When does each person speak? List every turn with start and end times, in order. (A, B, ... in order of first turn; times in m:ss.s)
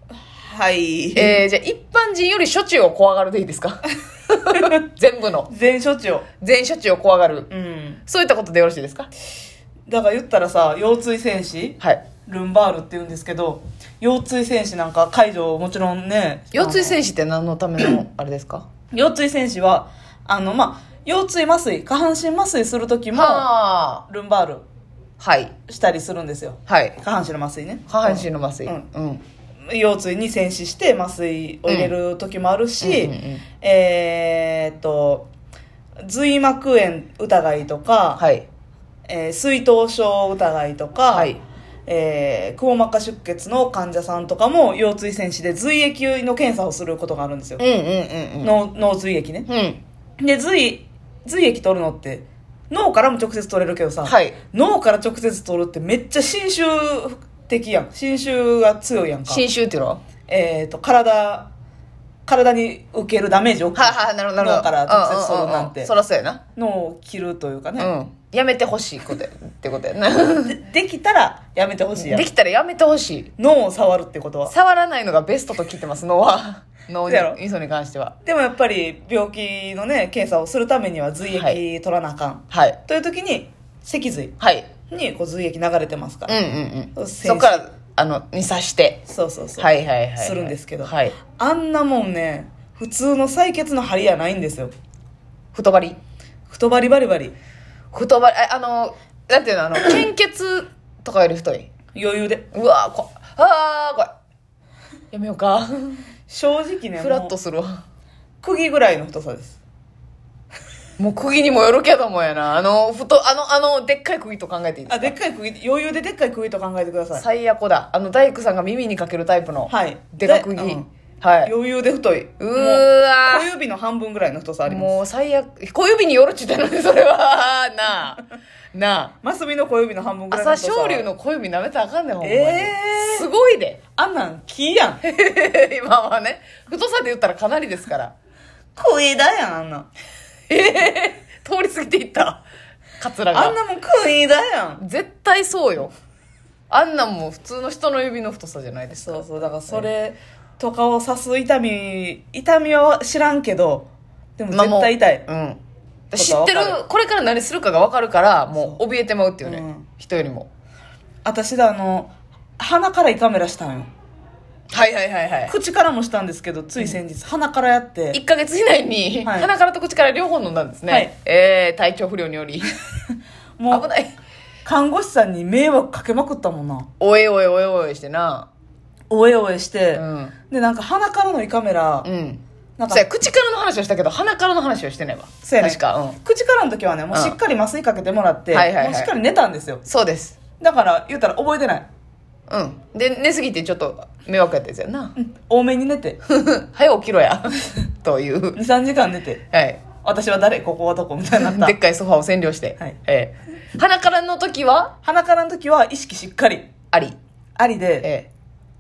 0:00.3-0:01.4 A
0:01.2-0:05.5 B
0:05.5-0:06.3 A
0:06.4-0:07.5 B
0:07.5-0:08.0 A
0:08.0-0:09.1 B
0:09.9-0:17.0 A
0:11.8-0:12.0 B
0:16.5-0:18.7 B
0:18.9-0:23.5 A
0:23.1-0:24.0 B
0:24.1-0:24.6 A
0:25.2-0:25.5 B
0:25.7-0:28.8 A
0:26.7-0:27.0 B
0:27.9-0:29.2 B
0:29.7-0:35.3 A
0:31.7-0:31.9 B
0:32.8-0:33.4 B
0:36.0-0:38.2 A
0:38.2-0:38.5 B
0:39.1-0:41.3 A
0:41.1-0:41.4 B
0:41.9-0:47.6 A
0:47.6-0:48.6 B
0:48.4-0:49.5 A
0:49.5-0:49.8 B
0:50.2-0:59.4 A
0:54.0-0:54.4 B
0:59.3-1:00.0 B
1:00.3-1:01.5 A
1:02.3-1:05.9 A
1:03.8-1:06.4 B
1:06.6-1:07.9 A
1:07.8-1:10.6 B
1:10.5-1:12.3 A
1:12.0-1:13.3 B
1:13.4-1:14.5 A
1:14.5-1:18.2 B
1:17.1-1:17.4 A
1:18.2-1:24.4 A
1:21.3-1:21.6 B
1:22.5-1:22.8 B
1:24.4-1:24.7 B
1:24.9-1:26.4 A
1:26.3-1:29.0 B
1:27.0-1:27.6 A
1:29.1-1:34.7 A
1:29.6-1:31.2 B
1:35.5-1:36.0 B
1:36.5-1:37.4 A
1:37.9-1:41.7 B
1:41.9-1:42.5 A
1:42.5-1:44.1 B
1:45.1-1:46.1 B
1:46.3-1:47.4 A
1:47.0-1:47.8 B
1:48.4-1:49.6 A
1:51.0-1:55.1 B
1:54.9-1:57.2 A
1:57.1-2:01.5 B
1:59.7-2:00.9 A
2:01.4-2:05.0 A
2:02.4-2:03.5 B
2:04.6-2:08.2 B
2:08.7-2:09.1 B
2:09.2-2:11.1 A
2:10.3-2:13.8 B
2:12.2-2:13.3 A
2:14.0-2:15.0 A
2:15.0-2:18.2 B
2:18.8-2:19.9 A
2:20.5-2:22.4 B
2:23.0-2:23.6 B
2:23.3-2:24.8 A
2:24.8-2:25.9 B
2:26.7-2:29.9 B
2:28.9-2:33.9 A
2:34.4-2:35.3 A
2:34.5-2:35.6 B
2:36.1-2:40.5 B
2:36.1-2:36.8 A
2:38.5-2:38.8 A
2:39.4-2:39.9 A
2:41.2-2:43.9 A
2:44.7-2:45.5 B
2:45.5-2:48.2 A
2:48.1-2:52.7 B
2:49.2-2:49.5 A
2:50.9-2:51.1 A
2:53.6-2:53.9 A
2:53.7-2:54.1 B
2:54.6-2:56.9 A
2:57.0-2:58.5 B
2:59.1-3:02.1 A
2:59.9-3:00.3 B
3:02.0-3:06.2 B
3:02.8-3:03.1 A
3:05.4-3:09.8 A
3:08.5-3:09.1 B
3:09.9-3:10.4 B
3:10.6-3:11.9 A
3:12.5-3:15.2 B
3:15.2-3:16.2 A
3:16.3-3:18.6 B
3:18.6-3:19.4 A
3:19.5-3:19.8 B
3:20.0-3:21.8 A
3:21.4-3:24.9 B
3:25.0-3:26.7 A
3:26.9-3:27.2 B
3:27.6-3:28.1 A
3:28.0-3:28.3 B